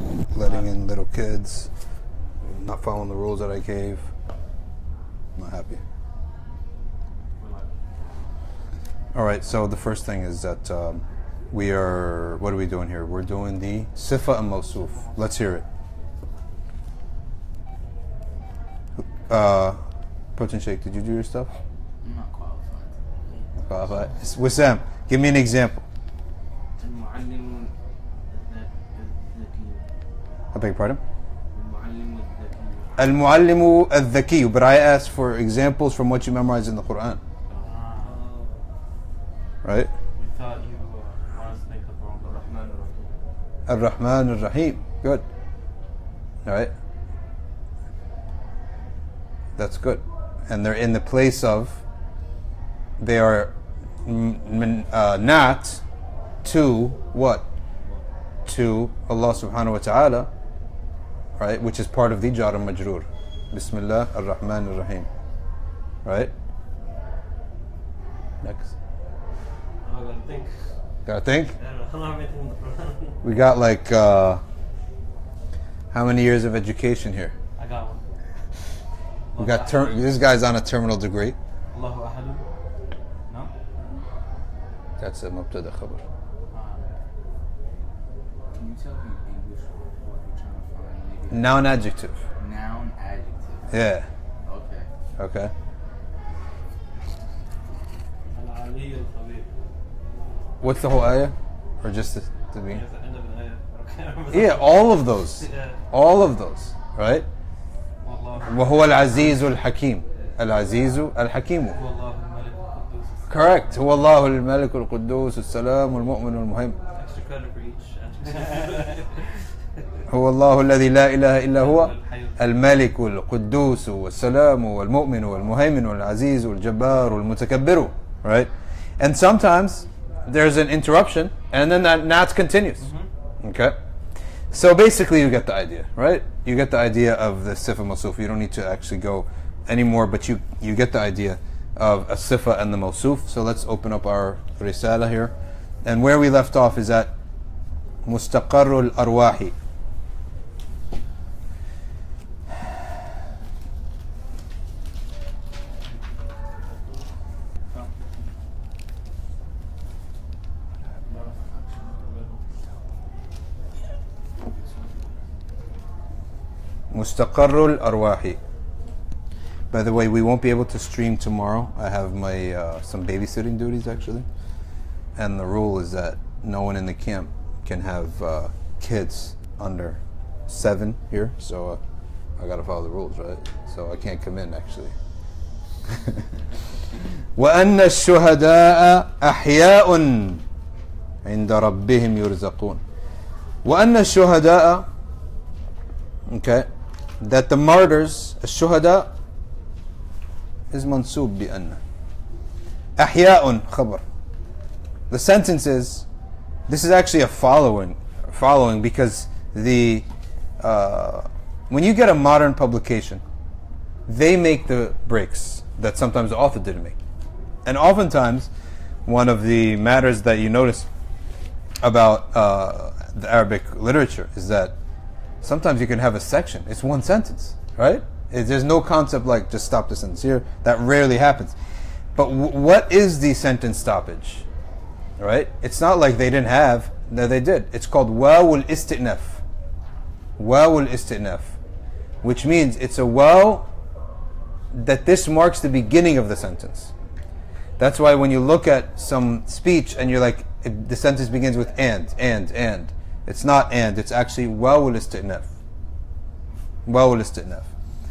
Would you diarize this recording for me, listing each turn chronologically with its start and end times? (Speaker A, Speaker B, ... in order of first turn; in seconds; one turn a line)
Speaker A: 0.3-1.7
Speaker A: 2.4-4.1
Speaker A: 5.4-5.8
Speaker B: 7.4-7.7
Speaker A: 9.1-15.6
Speaker A: 19.1-19.8
Speaker A: 20.4-21.5
Speaker B: 22.0-23.9
Speaker A: 23.6-25.8
Speaker B: 26.8-27.7
Speaker B: 28.3-29.8
Speaker A: 30.5-31.0
Speaker B: 31.5-33.3
Speaker A: 33.0-37.2
Speaker B: 37.5-38.1
Speaker C: 37.5-38.6
Speaker A: 39.6-39.9
Speaker C: 40.1-42.7
Speaker B: 42.2-43.1
Speaker A: 43.7-45.2
Speaker A: 46.5-46.7
Speaker A: 49.6-51.8
Speaker A: 53.0-53.5
Speaker A: 54.1-55.8
Speaker A: 56.4-57.5
Speaker A: 58.5-60.3
Speaker A: 61.4-65.1
Speaker A: 66.0-66.3
Speaker A: 68.4-68.7
Speaker C: 69.8-70.6
Speaker A: 71.1-71.5
Speaker C: 71.6-73.2
Speaker A: 73.2-74.4
Speaker A: 75.9-77.3
Speaker C: 77.6-78.0
Speaker C: 79.3-80.2
Speaker A: 79.4-81.4
Speaker C: 81.7-82.4
Speaker A: 85.0-86.0
Speaker B: 86.5-86.9
Speaker B: 88.5-91.8
Speaker A: 91.3-92.2
Speaker B: 92.4-93.8
Speaker A: 93.7-94.1
Speaker B: 94.4-94.9
Speaker A: 95.2-95.5
Speaker C: 98.3-99.5
Speaker A: 100.6-102.8
Speaker C: 102.7-105.8
Speaker A: 104.3-107.3
Speaker C: 108.0-108.8
Speaker A: 108.5-111.8
Speaker C: 111.7-113.8
Speaker A: 113.3-116.8
Speaker C: 117.0-119.3
Speaker A: 120.1-132.9
Speaker C: 121.5-122.4
Speaker A: 133.4-133.8
Speaker A: 134.5-145.3
Speaker A: 145.8-147.1
Speaker A: 148.1-149.6
Speaker B: 157.7-158.1
Speaker C: 161.1-162.4
Speaker A: 166.9-168.4
Speaker A: 169.7-174.3
Speaker A: 175.2-181.8
Speaker A: 182.4-184.9
Speaker A: 187.4-190.4
Speaker A: 191.2-192.8
Speaker A: 193.6-194.8
Speaker A: 196.3-196.7
Speaker A: 197.2-199.1
Speaker A: 200.7-201.8
Speaker A: 203.0-204.0
Speaker A: 205.1-206.1
Speaker A: 206.7-210.1
Speaker A: 210.6-213.2
Speaker A: 214.1-216.9
Speaker A: 217.7-218.5
Speaker A: 219.1-220.9
Speaker A: 221.8-224.7
Speaker A: 225.4-231.6
Speaker A: 232.2-234.4
Speaker A: 235.2-239.4
Speaker A: 240.4-241.6
Speaker A: 242.2-243.7
Speaker A: 244.7-246.9
Speaker A: 247.8-255.5
Speaker A: 256.9-257.7